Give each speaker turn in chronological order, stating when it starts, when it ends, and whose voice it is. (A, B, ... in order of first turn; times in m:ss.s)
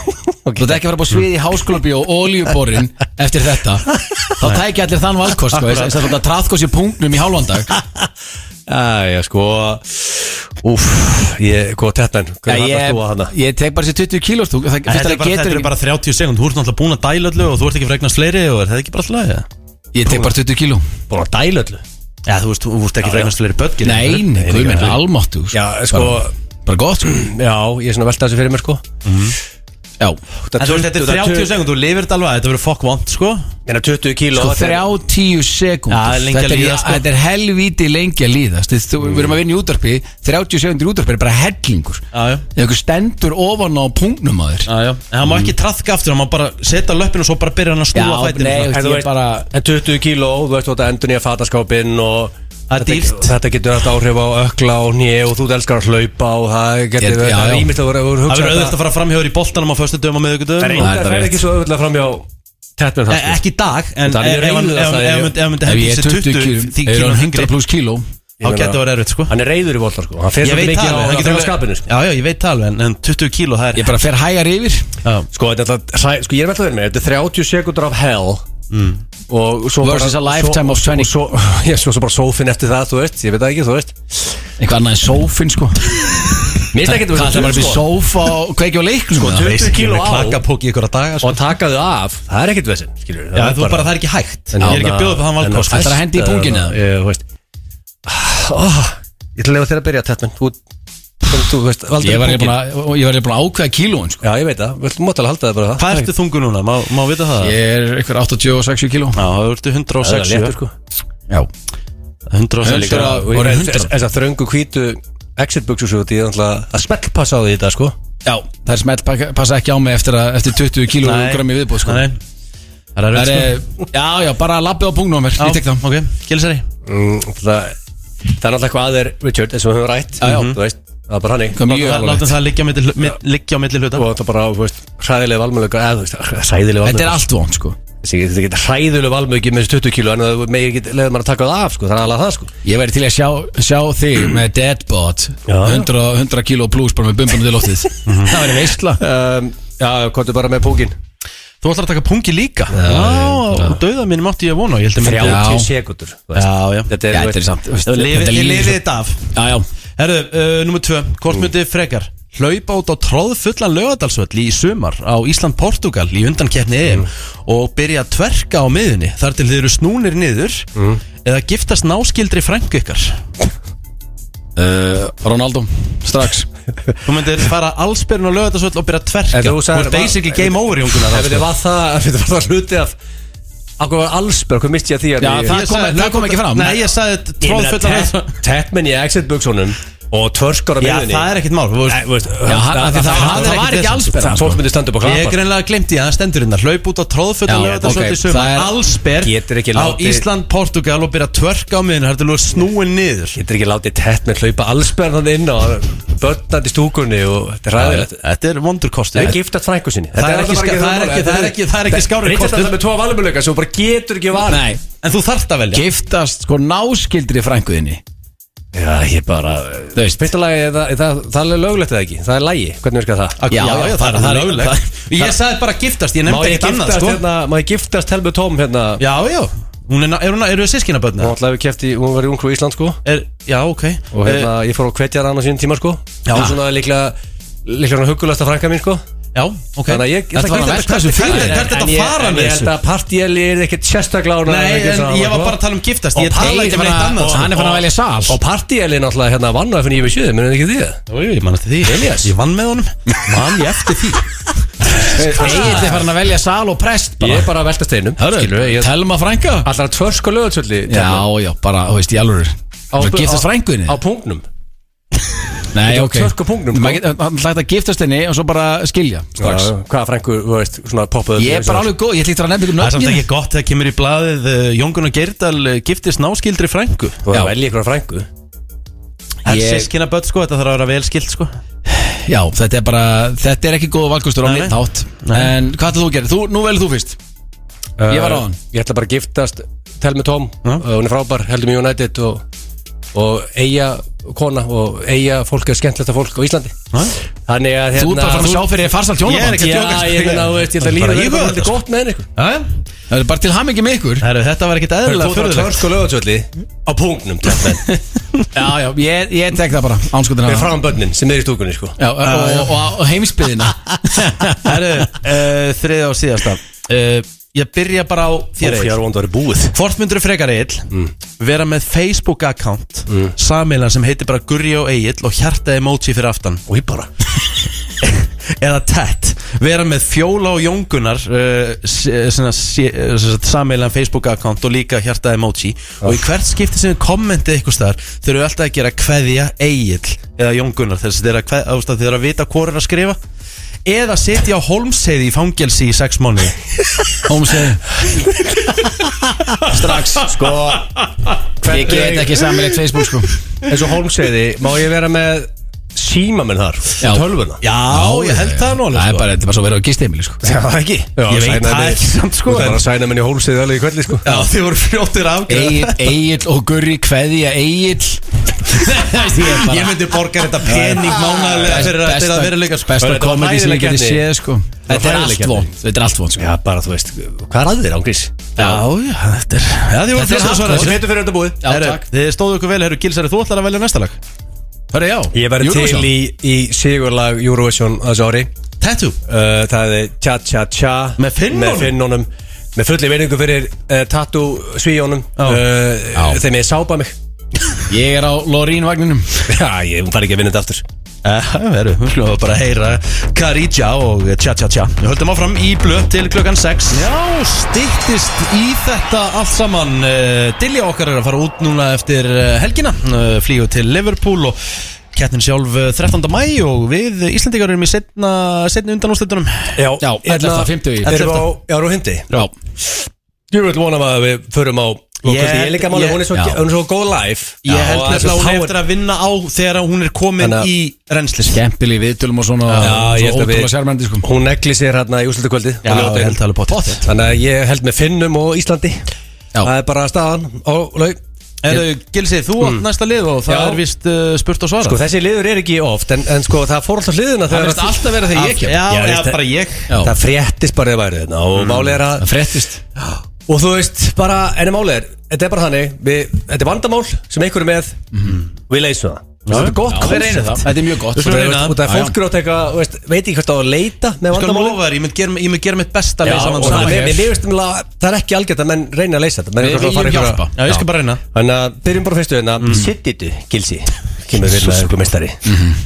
0:00.4-0:00.8 A
0:00.6-0:07.7 B
0:05.5-0:06.0 C
0:08.7-0:13.3 A
0:12.5-0:15.7 B
0:14.9-0:19.5 C
0:19.9-0:20.8 B
0:21.1-0:21.8 A
0:22.3-0:24.9 C
0:23.0-0:23.3 A
0:23.8-0:27.2 B
0:24.3-0:25.0 A
0:25.5-0:26.3 A
0:27.0-0:28.8 A
0:29.0-0:29.3 C
0:30.4-0:31.5 A
0:30.6-0:33.5 C
0:33.6-0:34.9 A
0:34.3-0:42.0 B
0:35.9-0:37.0 C
0:42.1-0:42.4 C
0:42.6-0:44.7 B
0:44.6-0:48.8 C
0:47.9-0:49.5 B
0:48.7-0:58.8 A
0:52.7-0:53.4 C
0:57.0-0:57.7 B
0:58.3-1:00.9 C
1:00.6-1:03.4 A
1:00.8-1:01.4 B
1:03.1-1:07.5 C
1:04.0-1:05.3 A
1:05.6-1:08.0 B
1:08.4-1:11.9 A
1:08.4-1:09.3 C
1:10.4-1:13.9 C
1:13.7-1:14.9 B
1:15.3-1:18.4 A
1:18.7-1:19.0 C
1:19.3-1:24.0 A
1:19.8-1:21.1 B
1:24.6-1:29.5 B
1:26.7-1:27.9 A
1:29.1-1:30.4 A
1:29.3-1:31.4 C
1:31.2-1:33.9 A
1:33.3-1:36.0 C
1:34.5-1:37.2 A
1:34.6-1:34.9 B
1:35.7-1:36.8 B
1:38.0-1:40.6 A
1:41.2-1:42.6 A
1:42.0-1:44.2 B
1:44.2-1:46.1 A
1:45.8-1:47.6 C
1:47.4-1:49.2 B
1:49.1-1:50.6 C
1:50.0-1:50.7 A
1:52.3-1:53.2 C
1:52.6-1:53.9 B
1:52.7-1:57.9 A
1:58.2-2:02.1 B
2:01.0-2:02.2 C
2:03.0-2:03.6 C
2:03.1-2:05.8 B
2:05.4-2:06.6 C
2:06.8-2:07.7 A
2:08.4-2:11.7 A
2:10.2-2:10.6 B
2:10.2-2:10.6 C
2:11.6-2:12.4 B
2:11.6-2:14.1 C
2:13.9-2:17.2 A
2:16.8-2:17.8 B
2:18.0-2:22.5 A
2:22.6-2:29.0 B
2:25.5-2:25.9 A
2:28.0-2:28.4 C
2:29.0-2:30.9 A
2:31.6-2:35.5 C
2:32.7-2:33.5 A
2:35.0-2:37.4 A
2:35.1-2:35.7 B
2:36.3-2:36.9 C
2:37.1-2:39.6 B
2:37.8-2:39.3 C
2:40.0-2:50.7 C
2:50.7-2:51.0 A
2:51.2-2:53.2 C
2:54.6-2:56.5 B
2:57.0-3:01.5 C
2:59.3-3:02.9 A
3:03.8-3:05.6 A
3:05.2-3:06.8 B
3:05.5-3:08.3 C
3:07.4-3:11.3 A
3:10.8-3:12.0 C
3:11.8-3:15.4 A
3:12.4-3:14.6 B
3:13.0-3:14.1 C
3:15.0-3:23.4 C
3:17.5-3:18.8 B
3:19.2-3:20.2 A
3:23.3-3:28.2 A
3:27.8-3:29.4 C
3:29.1-3:34.7 A
3:30.1-3:32.8 C
3:34.5-3:34.8 B
3:35.0-3:35.8 C
3:35.7-3:38.0 B
3:38.7-3:43.4 A
3:40.0-3:40.2 B
3:43.4-3:47.2 C
3:43.5-3:45.3 B
3:46.2-3:49.0 A
3:49.0-3:51.3 C
3:51.2-3:53.0 A
3:53.0-3:54.5 C
3:54.1-3:59.0 A
3:56.2-3:56.5 C
3:59.3-4:00.1 C
3:59.9-4:05.6 A
4:00.3-4:01.7 B
4:00.8-4:02.7 C
4:04.4-4:07.8 C
4:06.2-4:06.5 A
4:06.3-4:08.4 B
4:07.2-4:07.7 A
4:08.3-4:11.0 A
4:11.1-4:14.3 C
4:11.8-4:12.3 A
4:15.0-4:17.5 B
4:15.3-4:16.0 A
4:17.2-4:18.9 A
4:18.2-4:19.7 B
4:19.6-4:21.3 A
4:20.9-4:24.0 B
4:22.9-4:24.4 A
4:25.7-4:29.7 B
4:25.8-4:27.0 A
4:29.4-4:31.9 A
4:31.4-4:33.2 B
4:32.8-4:37.2 C
4:37.2-4:38.3 A
4:39.4-4:41.5 C
4:39.5-4:39.9 B
4:41.9-4:47.2 B
4:44.4-4:45.5 C
4:48.0-4:52.4 A
4:48.1-4:48.6 B
4:53.1-4:56.7 A
4:57.5-4:58.7 A
4:58.0-4:59.8 B
4:59.2-5:01.8 C
4:59.5-5:02.3 A
5:02.4-5:02.7 C
5:03.1-5:04.2 B
5:04.2-5:05.9 C
5:05.0-5:07.8 A
5:08.5-5:10.8 B
5:10.4-5:12.0 A
5:12.0-5:14.7 B
5:12.2-5:12.7 C
5:14.6-5:19.0 C
5:18.6-5:19.8 A
5:19.7-5:26.6 C
5:23.1-5:23.3 A
5:26.7-5:27.1 A
5:28.0-5:43.2 C
5:43.8-5:46.6 C
5:47.2-5:47.9 B
5:49.6-5:50.3 B
5:49.7-5:50.2 C
5:50.2-5:50.9 A
5:51.6-5:52.6 A
5:51.6-5:53.4 B
5:53.6-5:57.6 A
5:57.6-5:59.3 C
5:57.9-6:00.4 B
6:00.4-6:04.4 A
6:01.3-6:02.8 C
6:04.2-6:06.2 C
6:05.5-6:10.0 B
6:08.7-6:13.0 C
6:10.6-6:16.5 B
6:13.0-6:14.2 A
6:14.9-6:15.7 A
6:16.4-6:18.5 A
6:18.6-6:21.0 C
6:18.6-6:18.8 B
6:20.1-6:21.0 B
6:20.6-6:21.6 A
6:21.6-6:22.0 B
6:21.6-6:24.2 C
6:24.9-6:26.1 B
6:25.3-6:28.5 A
6:28.8-6:29.2 C
6:29.2-6:37.1 A
6:31.2-6:32.0 C
6:36.1-6:36.4 B
6:37.9-6:39.4 B
6:39.5-6:40.8 A
6:41.2-6:54.6 C
6:55.1-6:59.8 C
6:59.8-7:02.3 A
7:00.0-7:01.3 B
7:01.0-7:01.5 C
7:03.5-7:08.8 A
7:05.2-7:06.2 C
7:06.3-7:06.6 B
7:07.6-7:11.6 C
7:10.4-7:10.7 A
7:11.5-7:14.3 B
7:12.7-7:12.9 C
7:12.8-7:16.4 A
7:15.8-7:17.0 C
7:16.7-7:17.0 B
7:17.0-7:19.0 A
7:19.6-7:21.2 A
7:21.6-7:25.0 C
7:23.4-7:23.8 A
7:24.8-7:28.2 A
7:27.5-7:28.8 B
7:28.3-7:29.9 C
7:28.8-7:29.4 A
7:29.9-7:30.1 B
7:29.9-7:32.3 A
7:31.6-7:31.9 C
7:32.2-7:32.8 B
7:33.5-7:38.0 A
7:38.7-7:40.3 A
7:39.4-7:41.8 C
7:39.5-7:42.1 B
7:41.2-7:44.8 A
7:44.3-7:47.2 C
7:46.2-7:50.7 A
7:46.3-7:47.2 B
7:49.6-7:50.8 B
7:50.5-7:51.2 C
7:51.3-7:55.5 A
7:52.6-7:52.8 C
7:54.4-7:55.0 C
7:55.4-7:55.8 B